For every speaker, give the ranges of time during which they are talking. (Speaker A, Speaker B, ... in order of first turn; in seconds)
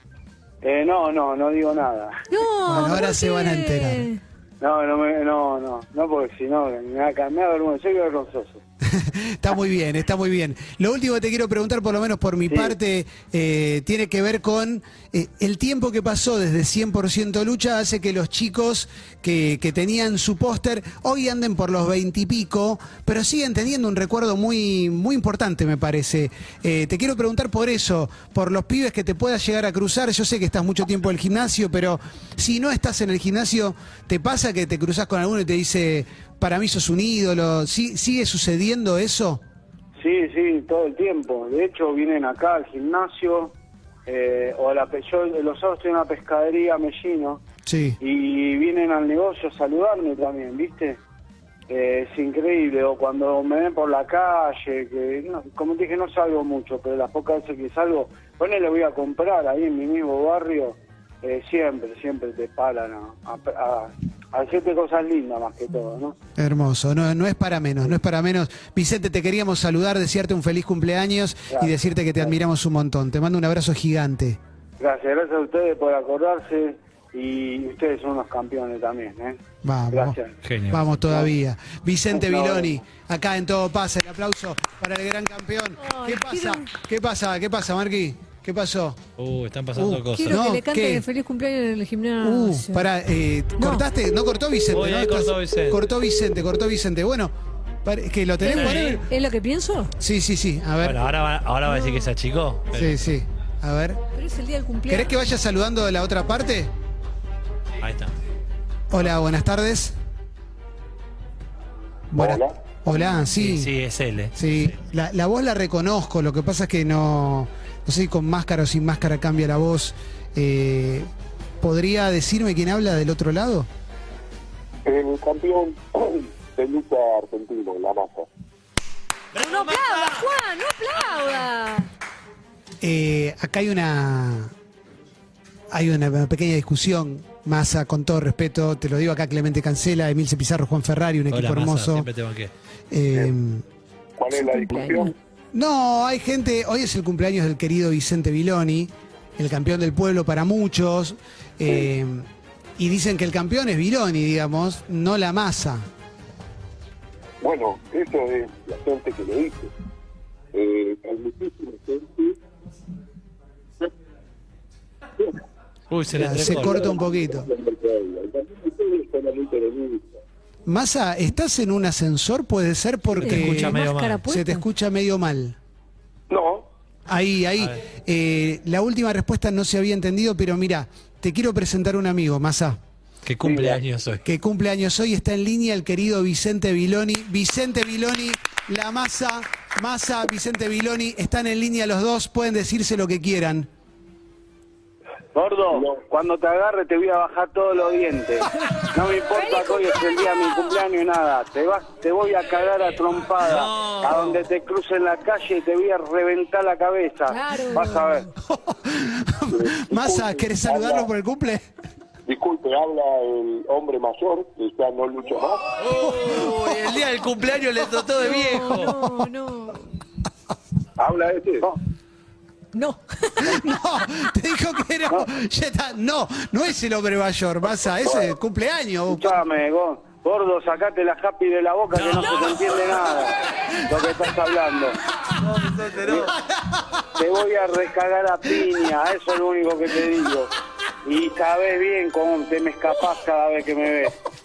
Speaker A: 0.6-2.2, 4.6-8.6, 12.5-12.8, 40.0-43.5, 44.0-47.4, 48.0-51.0, 51.7-66.1, 71.5-72.4, 74.8-79.4, 79.9-80.3, 82.1-82.8, 195.3-208.3, 229.1-233.3, 233.8-235.0, 236.0-236.3, 237.1-240.5, 241.0-244.1
Speaker B: 2.3-4.2, 85.8-86.7, 90.1-92.8, 93.6-93.8, 98.4-99.9, 104.2-105.0, 129.4-131.9, 144.3-145.1, 173.2-174.6, 199.3-200.2, 207.3-208.3, 218.2-219.8, 222.7-223.5
Speaker C: 2.7-4.1, 8.8-39.4, 47.6-48.0, 66.4-74.4, 79.6-80.2, 80.7-89.0, 89.8-91.0, 92.2-97.3, 97.8-99.0, 100.0-101.0, 102.7-104.0, 104.9-106.7, 108.9-109.9, 112.1-113.7, 114.3-121.1, 121.6-123.7, 132.8-134.5, 135.7-142.1, 142.9-143.6, 145.5-152.2, 152.8-155.8, 166.1-167.5, 170.7-175.6, 177.1-182.8, 184.2-193.7, 208.4-211.6, 216.1-217.0, 218.8-219.1, 223.4-229.3
Speaker D: 80.4-80.9, 89.2-90.4, 94.7-95.8, 98.4-99.0, 100.8-103.1, 107.8-108.1, 113.3-114.7, 129.3-130.3, 141.3-142.5, 165.9-166.8, 173.2-174.2, 183.2-184.2, 203.4-204.4, 215.8-219.0, 231.9-232.8, 235.4-236.3
Speaker E: 112.2-112.5, 124.8-128.3, 144.2-145.1, 157.4-159.7, 160.5-162.4, 166.5-170.2, 176.3-176.7, 183.5-183.8, 209.5-211.1, 212.3-215.6, 221.0-221.7, 228.0-228.3